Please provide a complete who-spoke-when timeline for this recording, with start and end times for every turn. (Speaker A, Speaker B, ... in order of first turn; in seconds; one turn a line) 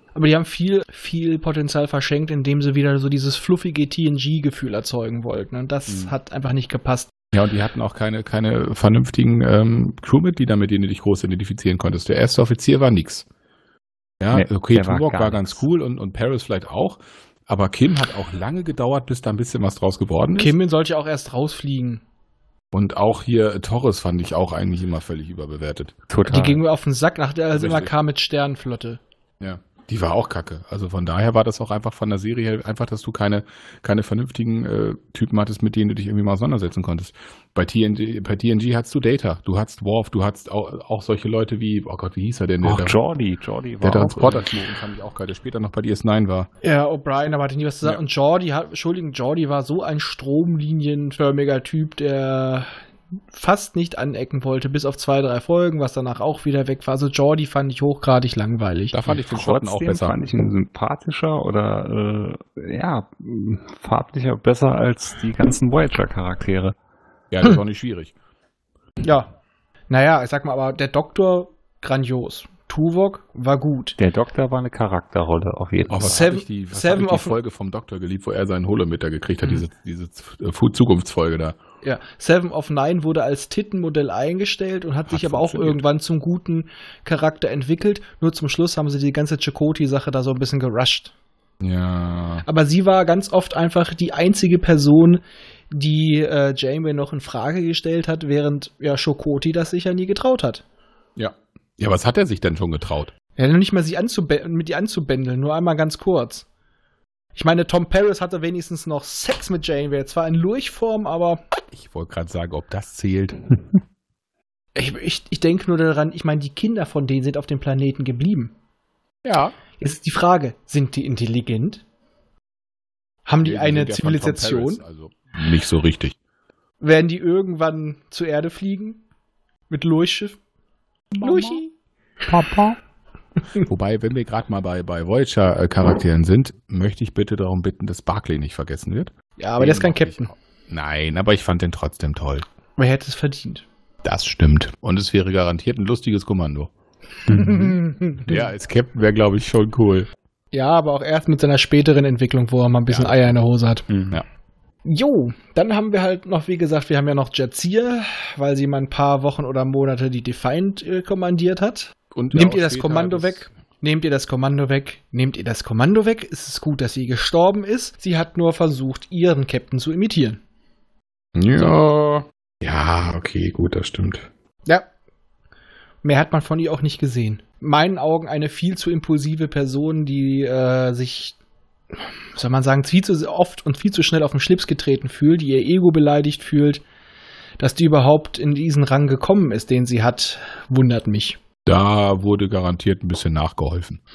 Speaker A: 0.1-7.1
Speaker B: 7.3-13.3
Speaker B: 14.2-20.6
Speaker C: 14.3-15.6
Speaker A: 20.4-22.0
Speaker B: 22.7-25.9
Speaker C: 26.1-26.6
Speaker A: 26.3-29.0
Speaker B: 27.5-27.9
Speaker B: 29.4-43.0
Speaker C: 42.6-44.5
Speaker B: 43.8-46.5
Speaker A: 46.6-52.7
Speaker A: 53.3-59.0
Speaker B: 58.9-60.2
Speaker C: 59.2-66.8
Speaker B: 67.3-68.1
Speaker A: 69.0-69.3
Speaker A: 69.9-74.0
Speaker C: 74.0-76.3
Speaker B: 75.9-81.6
Speaker A: 76.0-77.3
Speaker A: 81.8-91.1
Speaker B: 85.1-85.8
Speaker B: 91.6-92.5
Speaker A: 92.5-100.6
Speaker B: 101.2-103.1
Speaker A: 103.4-106.5
Speaker A: 107.3-111.4
Speaker B: 111.7-113.6
Speaker A: 114.8-118.5
Speaker B: 119.2-119.6
Speaker A: 119.8-121.8
Speaker A: 123.3-124.8
Speaker B: 123.4-126.2
Speaker A: 126.8-129.0
Speaker A: 129.7-130.4
Speaker B: 131.1-131.6
Speaker A: 131.2-131.7
Speaker B: 132.3-132.7
Speaker B: 133.6-142.5
Speaker A: 139.4-140.3
Speaker A: 142.8-143.7
Speaker B: 144.0-146.7
Speaker B: 147.3-150.1
Speaker A: 147.3-148.4
Speaker A: 150.5-153.9
Speaker B: 152.9-153.3
Speaker C: 153.9-154.2
Speaker A: 154.9-170.4
Speaker B: 162.1-163.5
Speaker B: 171.3-174.3
Speaker A: 176.0-181.4
Speaker A: 182.3-186.8
Speaker A: 187.6-191.4
Speaker B: 191.7-194.0